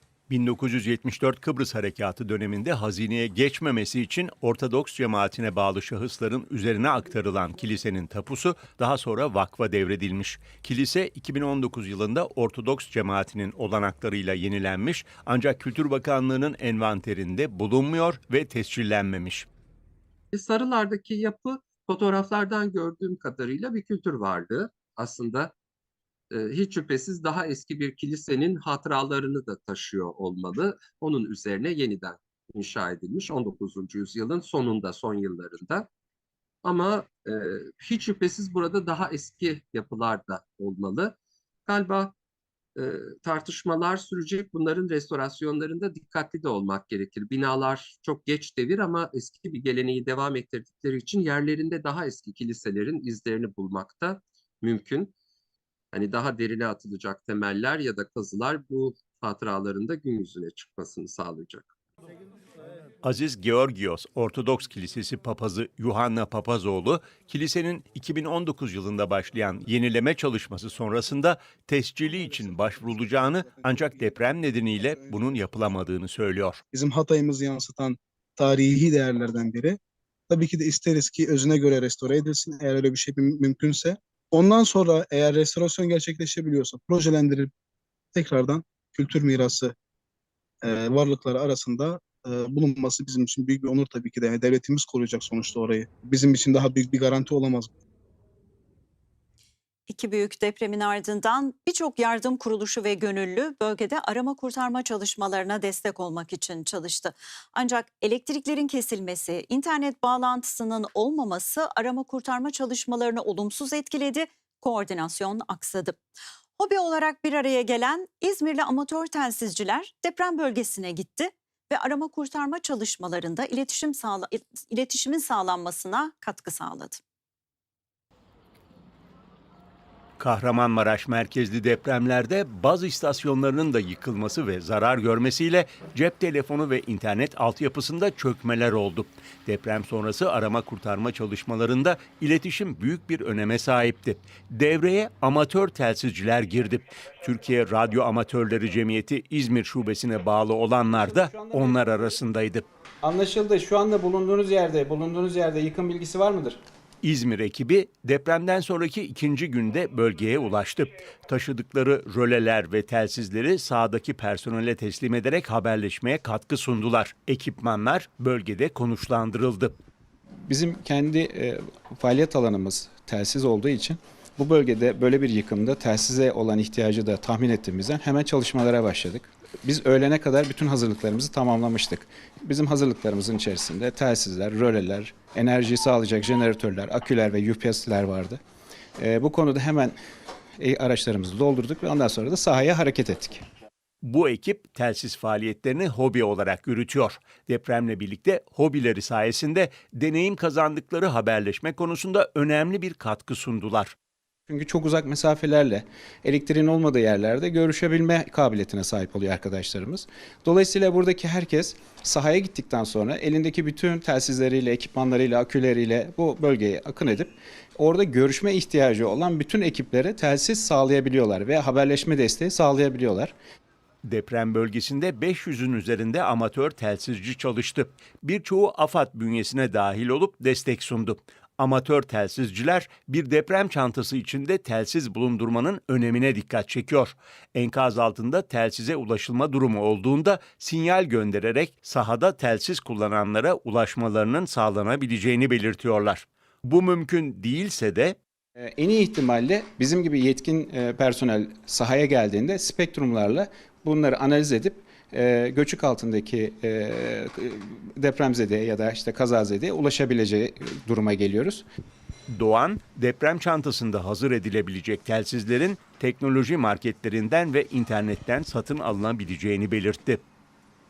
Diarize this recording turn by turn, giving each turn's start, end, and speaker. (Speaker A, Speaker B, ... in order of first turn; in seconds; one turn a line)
Speaker A: 0.3-19.5
Speaker B: 20.3-25.5
Speaker B: 26.3-35.9
Speaker B: 36.6-42.1
Speaker B: 42.8-55.1
Speaker B: 55.9-61.7
Speaker A: 63.0-76.6
Speaker C: 72.2-74.2
Speaker C: 74.8-75.4
Speaker C: 76.7-79.8
Speaker C: 80.3-87.5
Speaker C: 88.1-89.7
Speaker C: 90.6-97.7
Speaker D: 99.9-116.0
Speaker D: 116.6-127.0
Speaker A: 130.2-152.7
Speaker E: 150.8-152.1
Speaker E: 153.0-156.6
Speaker A: 157.0-169.8
Speaker E: 170.5-188.4
Speaker E: 189.0-189.9
Speaker E: 190.6-193.4
Speaker A: 194.0-203.9
Speaker E: 204.5-223.3
Speaker A: 224.0-248.2
Speaker E: 248.6-261.6
Speaker A: 262.3-270.2